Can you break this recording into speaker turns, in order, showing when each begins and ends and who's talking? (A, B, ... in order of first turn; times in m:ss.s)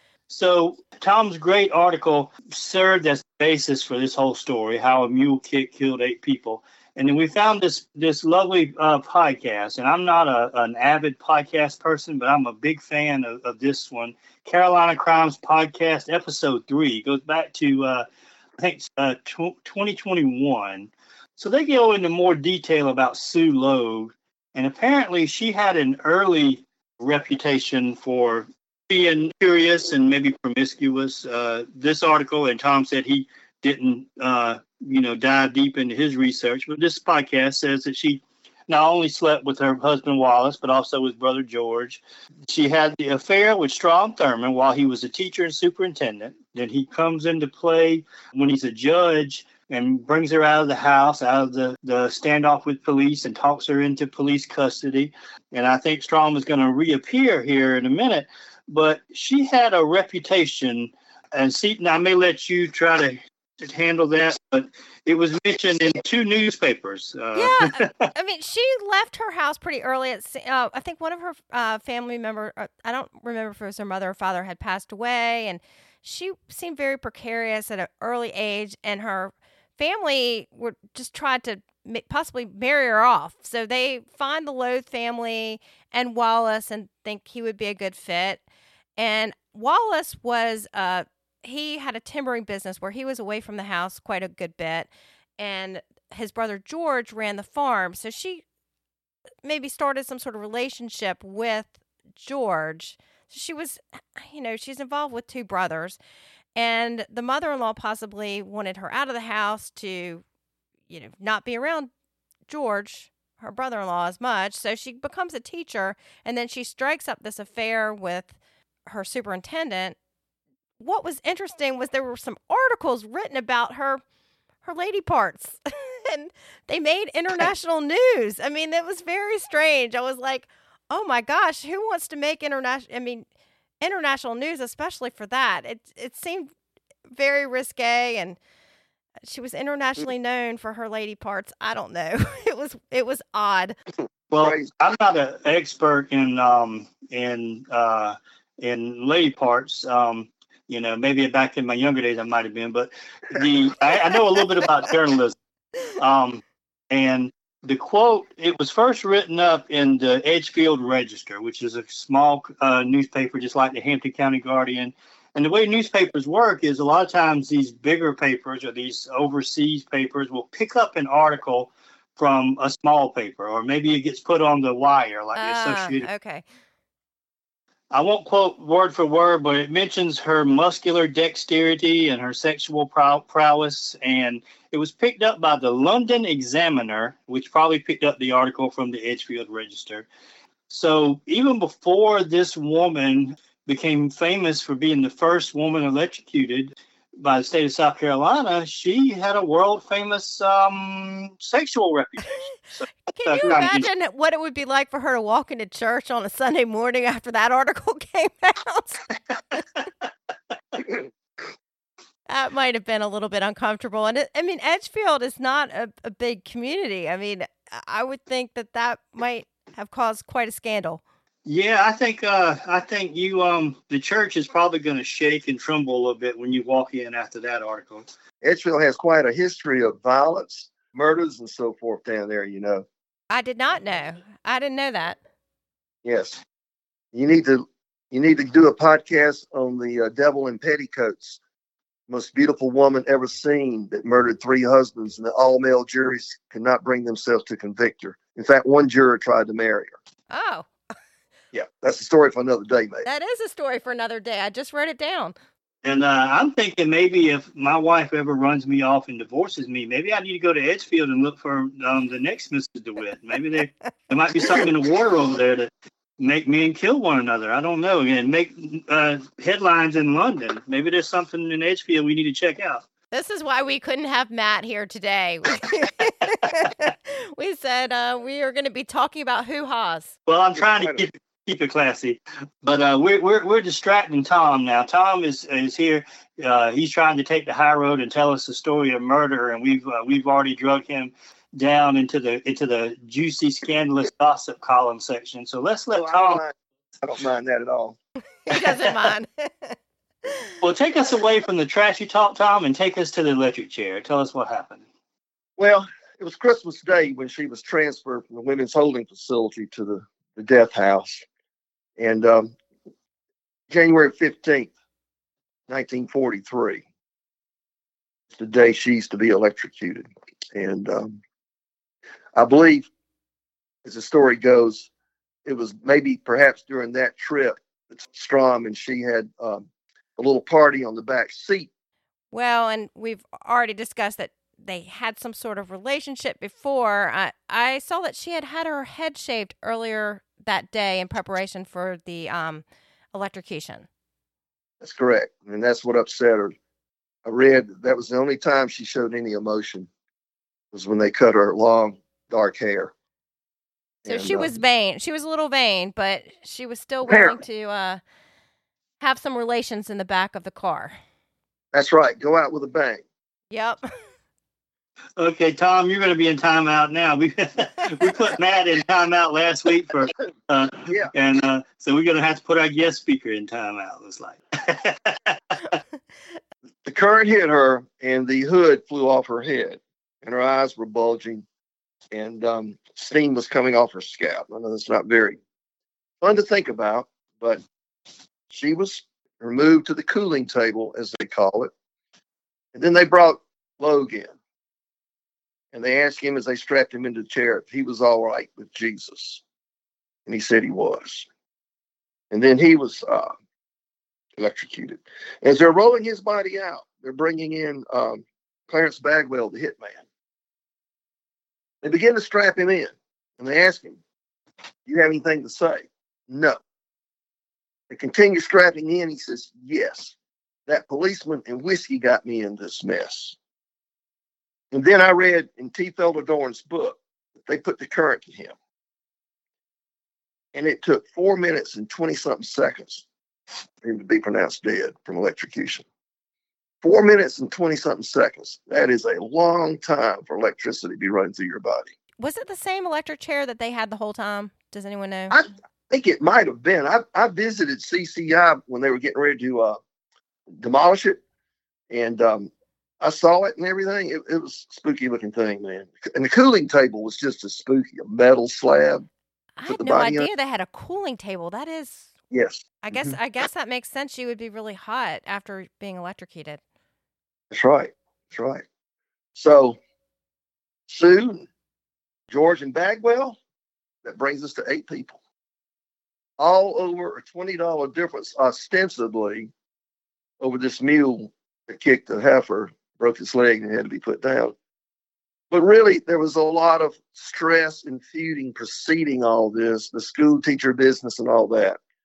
0:00.3-0:18.0 A
0:18.6-1:08.1 A
1:07.3-1:28.4 B
1:29.0-1:38.4 B
1:39.4-1:46.0 B
1:46.6-1:50.2 B
1:50.9-1:51.9 B
1:52.5-1:58.4 B
1:58.9-2:00.0 B
2:00.8-2:04.0 B
2:04.6-2:13.2 B
2:13.8-2:16.5 B
2:17.1-2:18.4 B
2:19.2-2:23.8 B
2:24.3-2:35.3 A
2:24.4-2:24.7 C
2:35.9-2:56.1 A
2:55.4-2:56.4 B
2:57.9-3:10.1 A
3:10.7-3:23.9 A
3:23.1-3:29.0 B
3:32.3-3:41.0 B
3:41.4-3:48.1 A
3:48.4-3:52.9 C
3:53.3-3:55.2 B
3:56.0-3:56.4 C
3:57.1-4:01.4 C
4:02.1-4:10.0 C
4:10.3-4:10.7 B
4:11.5-4:13.0 C
4:13.0-4:15.3 B
4:15.8-4:32.8 A
4:33.1-4:40.1 B
4:40.3-4:56.4 A
4:40.6-4:41.0 C
4:56.0-4:58.0 C
4:58.4-5:00.5 B
4:58.5-4:59.1 A
5:00.6-5:04.8 A
5:05.6-5:11.2 C
5:12.0-5:12.5 C
5:13.7-5:14.7 C
5:15.7-5:16.8 C
5:18.3-5:21.2 C
5:22.3-5:22.9 C
5:23.8-5:24.9 C
5:25.4-5:31.7 C
5:32.3-5:43.9 B
5:44.8-5:46.5 C
5:47.2-5:49.9 C
5:50.7-5:52.9 C
5:54.0-5:54.5 C
5:54.0-5:58.0 B
5:57.0-5:57.4 C
5:59.0-6:00.9 B
6:01.7-6:03.0 C
6:03.5-6:03.8 B
6:05.2-6:15.7 A
6:16.8-6:21.4 C
6:22.1-6:25.4 C
6:26.2-6:27.6 C
6:28.5-6:31.7 C
6:32.7-6:34.3 C
6:35.7-6:39.4 C
6:40.2-6:41.3 C
6:42.3-6:43.3 C
6:44.4-6:50.0 C
6:51.8-6:54.0 C
6:54.9-6:56.6 C
6:57.9-7:00.1 C
7:00.7-7:03.4 C
7:04.7-7:08.5 C
7:10.5-7:13.0 C
7:13.8-7:15.8 C
7:16.8-7:21.9 C
7:22.2-7:25.4 B
7:25.3-7:29.8 C
7:30.6-7:31.2 C
7:31.9-7:32.5 C
7:33.0-7:39.1 C
7:39.6-7:42.1 B
7:39.7-7:40.3 C
7:42.3-7:43.2 C
7:42.8-7:46.6 B
7:47.5-7:48.6 C
7:49.4-7:49.8 C
7:50.9-7:51.5 C
7:52.3-7:53.4 C
7:54.0-7:55.2 C
7:56.4-7:59.5 C
8:00.4-8:04.5 C
8:05.5-8:11.8 C